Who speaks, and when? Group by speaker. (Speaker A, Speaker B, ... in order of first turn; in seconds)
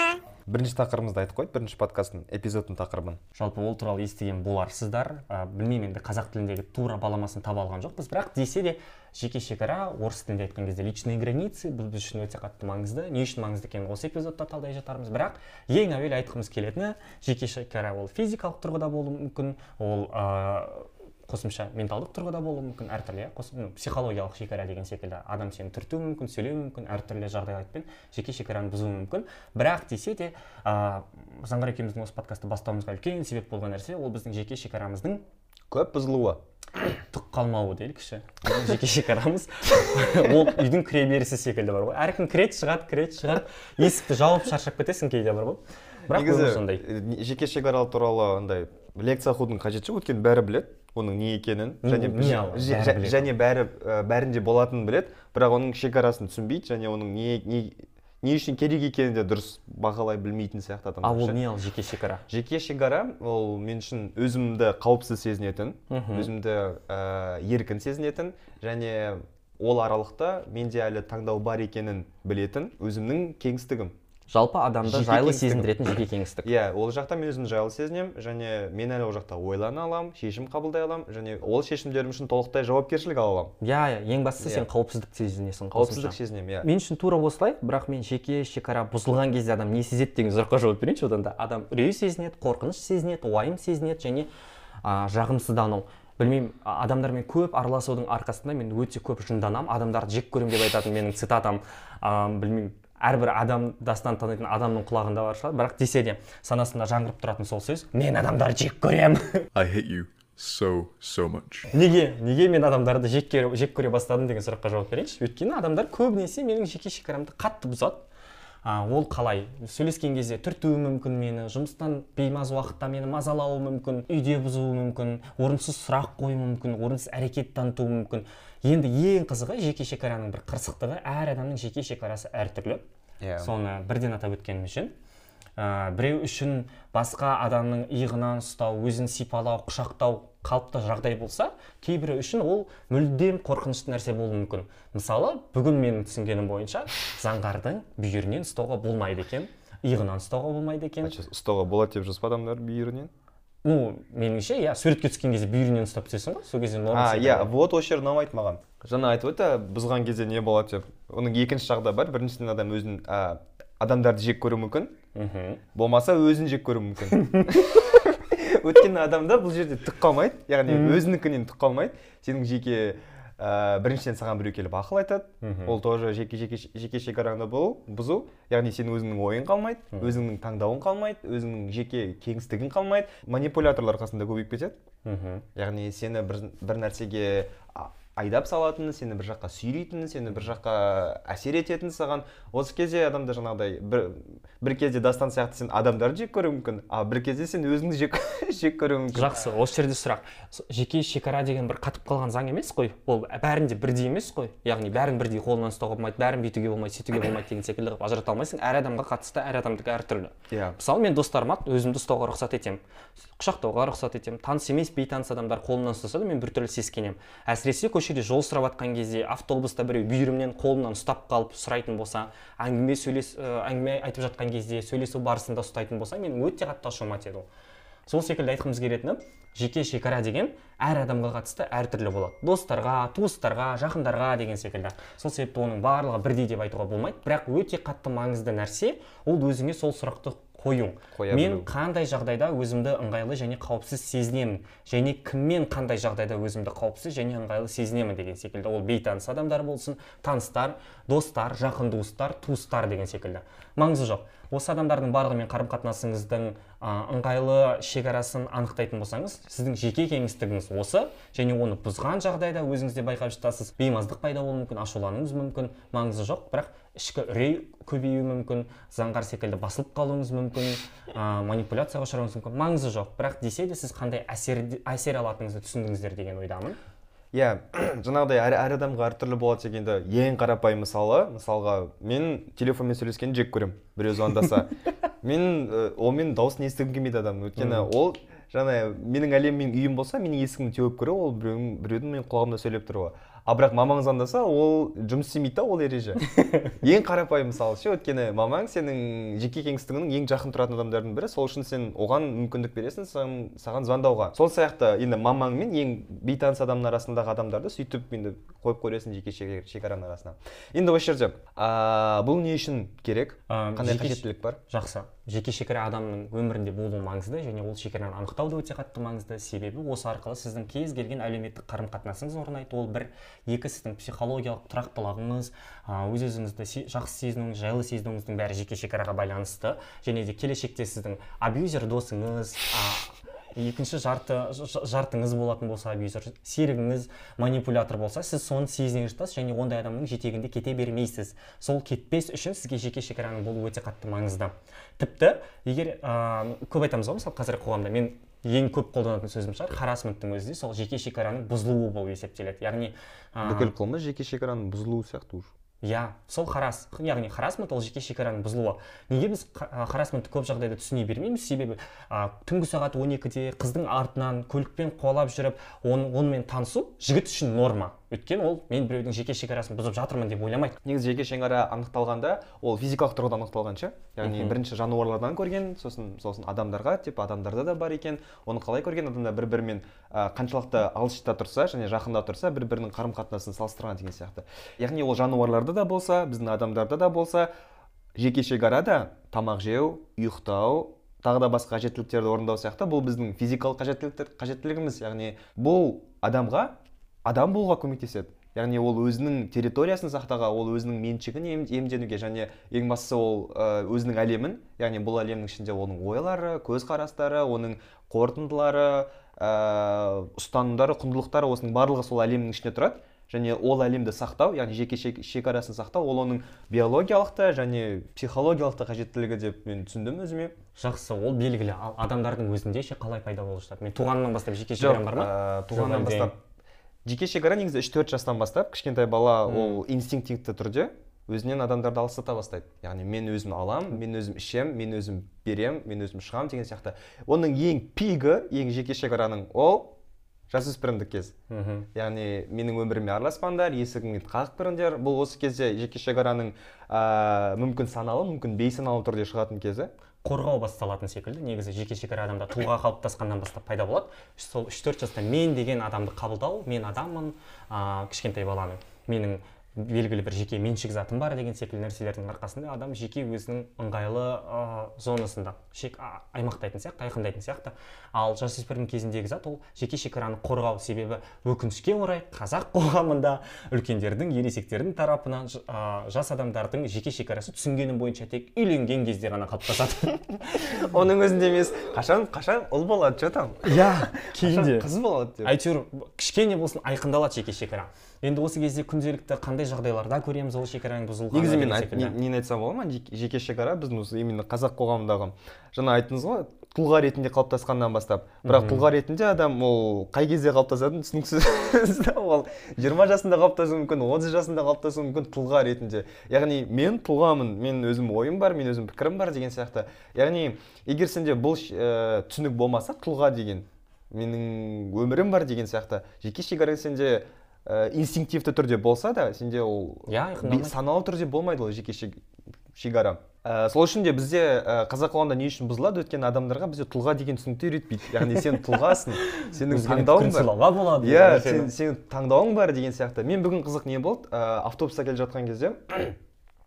Speaker A: 0.5-3.2, 35.7-36.4, 46.1-61.4, 62.3-73.9, 74.8-75.8, 76.4-83.5, 84.4-84.7, 85.7-86.7, 133.2-133.5, 151.0-153.1, 156.9-165.0, 165.7-184.8, 185.6-199.4, 210.5-210.8, 241.1-241.7, 277.3-284.7, 285.2-314.6, 353.4-355.5, 370.8-387.5, 388.1-420.6, 424.8-426.4, 427.0-439.9, 440.5-441.3, 441.9-449.9, 480.5-485.5, 491.3-522.2, 522.7-536.2
Speaker B: 3.4-35.2, 37.1-46.8, 51.8-53.3, 61.0-62.2, 65.9-66.3, 74.3-76.5, 83.6-94.3, 94.8-109.5, 111.7-118.0, 118.6-132.8, 133.4-134.9, 135.6-151.2, 153.6-157.5, 165.1-165.6, 167.2-167.6, 170.7-171.0, 175.4-175.8, 179.9-180.2, 185.0-185.4, 199.1-212.8, 213.3-227.5, 228.1-276.8, 287.6-287.9, 313.5-353.7, 355.8-370.8, 374.2-374.6, 420.8-426.3, 429.5-429.8, 441.5-441.9, 450.2-480.6, 483.6-484.9, 485.4-492.1, 498.4-498.8, 520.1-520.8, 529.3-531.7
Speaker C: 109.5-111.7